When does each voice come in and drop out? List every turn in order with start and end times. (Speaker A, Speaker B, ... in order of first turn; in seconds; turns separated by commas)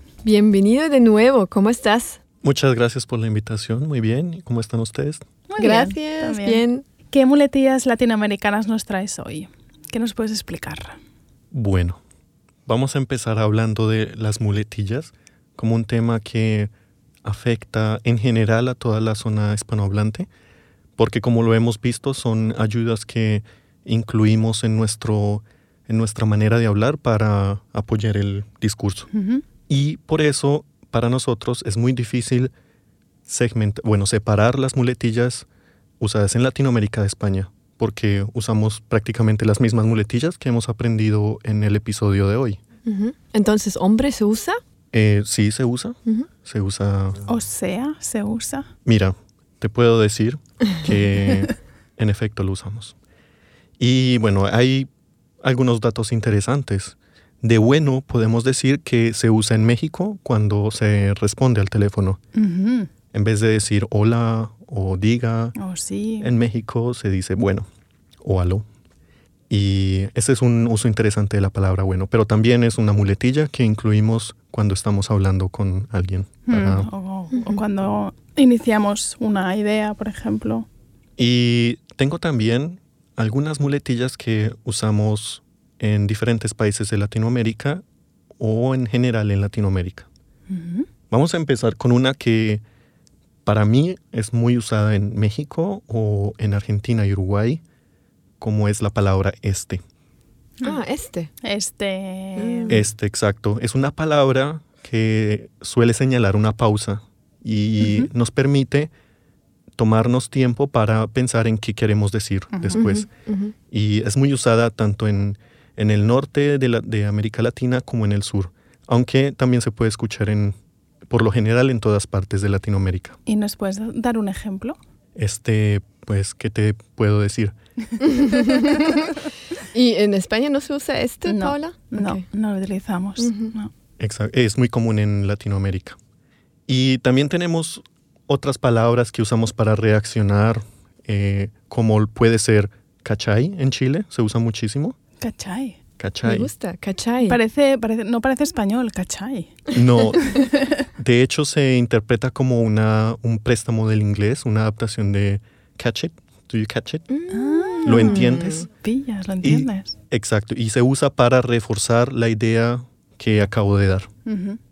Speaker A: 0.2-2.2, Speaker B: 2.4-5.2, Speaker C: 5.5-11.0, Speaker A: 5.6-6.8, Speaker B: 11.5-12.0, Speaker B: 12.7-16.7, Speaker B: 17.2-20.3, Speaker B: 21.0-29.1, Speaker C: 29.1-29.4, Speaker B: 29.7-32.5, Speaker B: 33.2-35.5, Speaker B: 36.0-42.6, Speaker A: 42.8-44.6, Speaker B: 44.9-47.2, Speaker C: 47.3-48.7, Speaker B: 48.9-52.9, Speaker B: 53.8-54.9, Speaker B: 55.4-62.2, Speaker C: 62.4-62.9, Speaker B: 63.1-65.5, Speaker C: 65.5-66.3, Speaker B: 66.2-67.7, Speaker B: 68.2-68.7, Speaker B: 69.5-76.9, Speaker C: 76.5-80.7, Speaker A: 77.3-77.6, Speaker B: 81.2-87.8, Speaker B: 88.4-90.1, Speaker C: 90.5-90.9, Speaker B: 91.1-92.6, Speaker B: 93.4-97.6, Speaker B: 98.4-99.8, Speaker A: 100.6-101.3, Speaker C: 101.4-102.8, Speaker A: 102.4-102.8, Speaker B: 102.7-108.9, Speaker C: 107.8-108.1, Speaker B: 109.8-113.1, Speaker C: 112.5-112.8, Speaker A: 112.7-113.5, Speaker B: 113.7-120.5, Speaker B: 121.1-123.2, Speaker C: 123.2-124.8, Speaker B: 125.1-127.5, Speaker A: 128.0-129.1, Speaker A: 129.7-132.2, Speaker C: 131.2-133.7, Speaker A: 133.2-133.5, Speaker B: 134.0-136.0, Speaker B: 136.7-144.9, Speaker C: 145.2-145.8, Speaker B: 146.0-146.5, Speaker A: 146.2-147.4, Speaker C: 147.2-149.6, Speaker B: 149.7-150.3, Speaker C: 150.2-150.8, Speaker B: 151.0-157.1, Speaker A: 157.1-158.7, Speaker C: 157.3-159.9, Speaker B: 157.8-158.7, Speaker B: 159.4-164.1, Speaker C: 164.2-164.6